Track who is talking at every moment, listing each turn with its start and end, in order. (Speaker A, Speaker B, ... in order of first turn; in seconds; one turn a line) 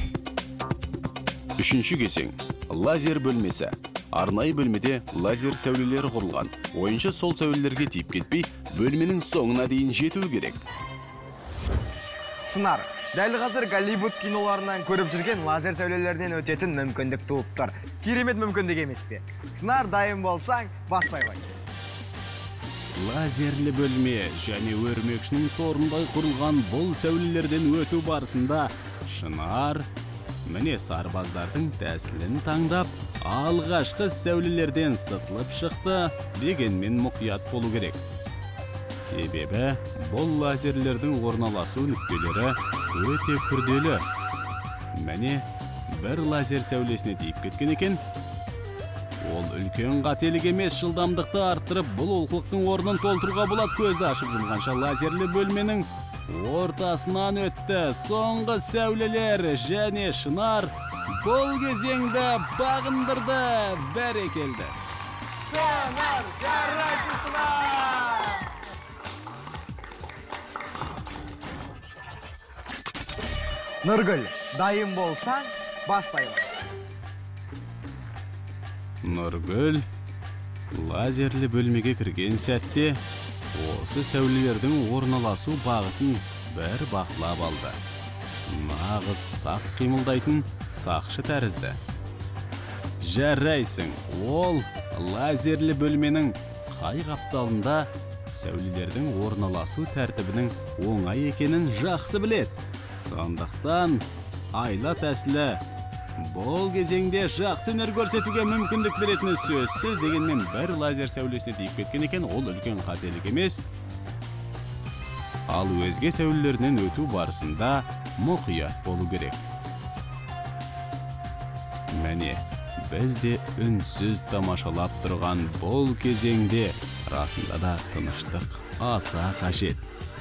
Speaker A: 1.6-10.6
Speaker B: 12.4-21.4
Speaker A: 22.9-29.9
Speaker A: 30.4-38.0
Speaker A: 38.9-44.0
Speaker A: 44.9-48.0
Speaker A: 49.2-64.8
Speaker C: 65.5-68.4
Speaker B: 73.8-76.5
Speaker A: 79.0-79.8
Speaker A: 80.7-83.0
Speaker A: 83.5-87.8
Speaker A: 88.5-91.8
Speaker A: 93.0-104.0
Speaker A: 104.5-105.6
Speaker A: 106.2-113.6
Speaker A: 115.5-119.4
Speaker A: 121.9-129.8